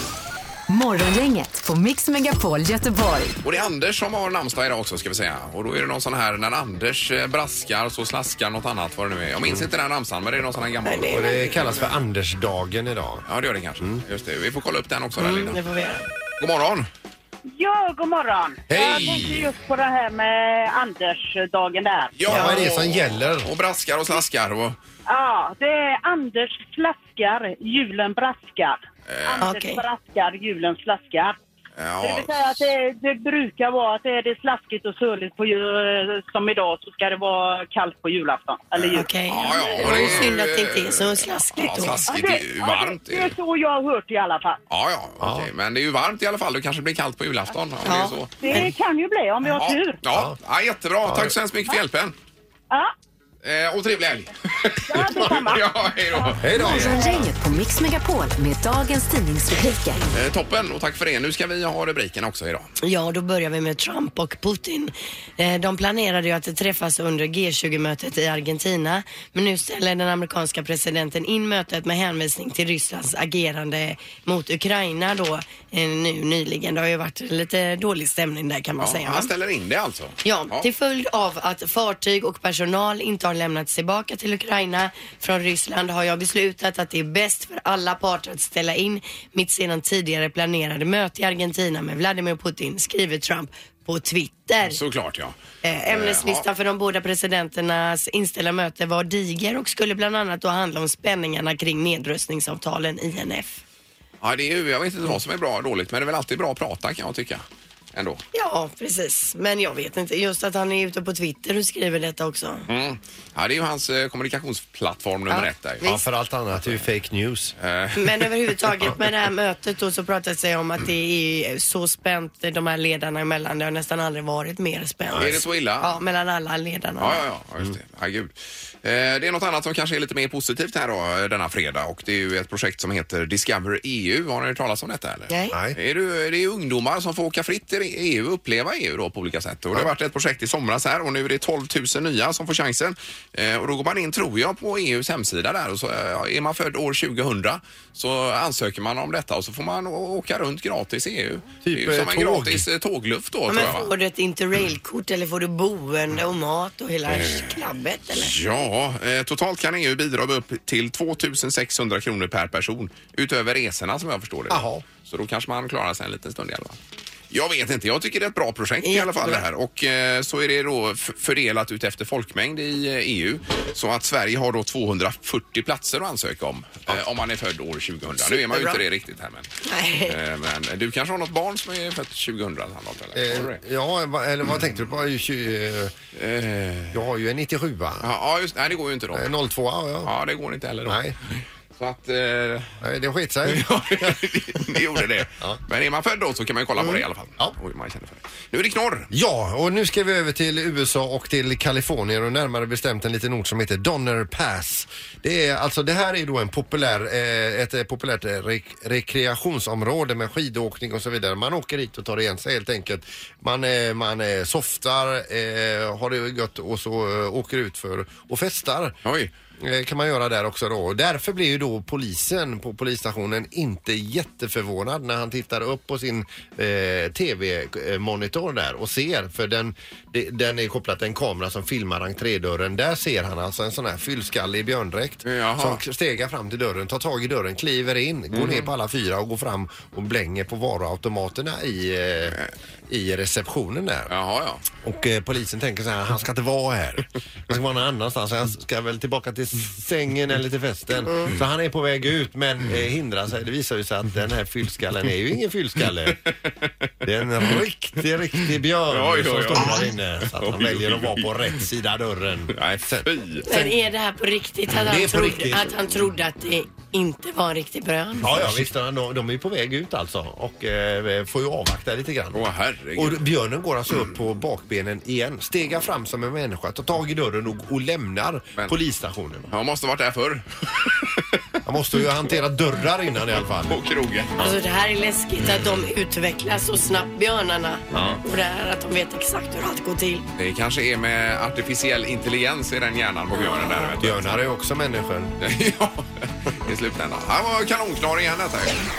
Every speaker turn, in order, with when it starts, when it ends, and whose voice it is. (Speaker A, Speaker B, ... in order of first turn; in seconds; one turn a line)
Speaker A: 0.7-3.3
Speaker B: 3.4-11.8
Speaker C: 10.8-11.6
Speaker D: 11.1-13.2
Speaker B: 13.3-15.6
Speaker C: 15.2-16.0
Speaker B: 16.4-16.9
Speaker E: 17.5-22.2
Speaker D: 18.7-19.4
Speaker B: 18.7-19.4
Speaker B: 22.2-24.8
Speaker D: 22.2-23.5
Speaker C: 22.3-22.6
Speaker E: 25.1-31.4
Speaker B: 29.1-29.5
Speaker C: 29.4-29.8
Speaker B: 31.8-32.6
Speaker E: 32.0-40.2
Speaker B: 38.8-43.4
Speaker C: 38.9-42.1
Speaker E: 42.1-44.6
Speaker B: 44.7-48.7
Speaker D: 45.2-45.5
Speaker C: 47.8-48.7
Speaker E: 48.4-50.0
Speaker B: 49.5-52.1
Speaker D: 50.1-50.4
Speaker D: 51.0-51.4
Speaker B: 53.4-56.7
Speaker E: 54.9-57.3
Speaker D: 56.4-57.2
Speaker A: 56.6-60.0
Speaker B: 60.1-62.7
Speaker C: 62.8-79.3
Speaker B: 78.8-80.7
Speaker C: 80.2-94.8
Speaker B: 94.6-95.3
Speaker C: 95.6-103.6
Speaker B: 95.9-96.4
Speaker B: 104.2-108.2
Speaker C: 108.3-112.7
Speaker B: 112.7-115.9
Speaker C: 115.3-116.0
Speaker D: 115.8-117.5
Speaker B: 117.6-118.3
Speaker C: 118.0-127.2
Speaker B: 125.1-126.0
Speaker B: 127.0-153.9
Speaker C: 135.3-135.6
Speaker D: 135.5-135.8
Speaker D: 151.6-152.7
Speaker C: 153.5-158.4
Speaker B: 157.1-157.6
Speaker B: 158.2-166.8
Speaker D: 164.5-164.8
Speaker B: 167.3-179.5
Speaker C: 168.8-169.4
Speaker C: 178.2-178.8
Speaker C: 179.6-180.2
Speaker B: 180.1-183.6
Speaker D: 183.1-185.9
Speaker B: 186.1-187.0
Speaker D: 186.9-188.1
Speaker B: 188.0-189.3
Speaker D: 189.1-190.1
Speaker B: 190.0-192.8
Speaker D: 190.8-191.2
Speaker D: 192.8-195.6
Speaker B: 193.4-199.1
Speaker D: 199.1-218.9
Speaker B: 219.0-219.3
Speaker D: 219.6-244.1
Speaker B: 235.2-235.8
Speaker B: 238.3-238.7
Speaker B: 244.1-244.6
Speaker D: 244.8-256.2
Speaker D: 257.0-263.1
Speaker B: 258.9-261.4
Speaker B: 262.5-263.5
Speaker C: 263.4-268.5
Speaker D: 264.7-265.8
Speaker D: 268.2-279.5
Speaker B: 272.3-273.2
Speaker B: 279.5-281.2
Speaker D: 281.6-283.8
Speaker B: 283.7-284.4
Speaker C: 284.4-290.3
Speaker D: 287.9-288.2
Speaker B: 290.4-294.4
Speaker D: 294.0-295.3
Speaker B: 295.4-298.8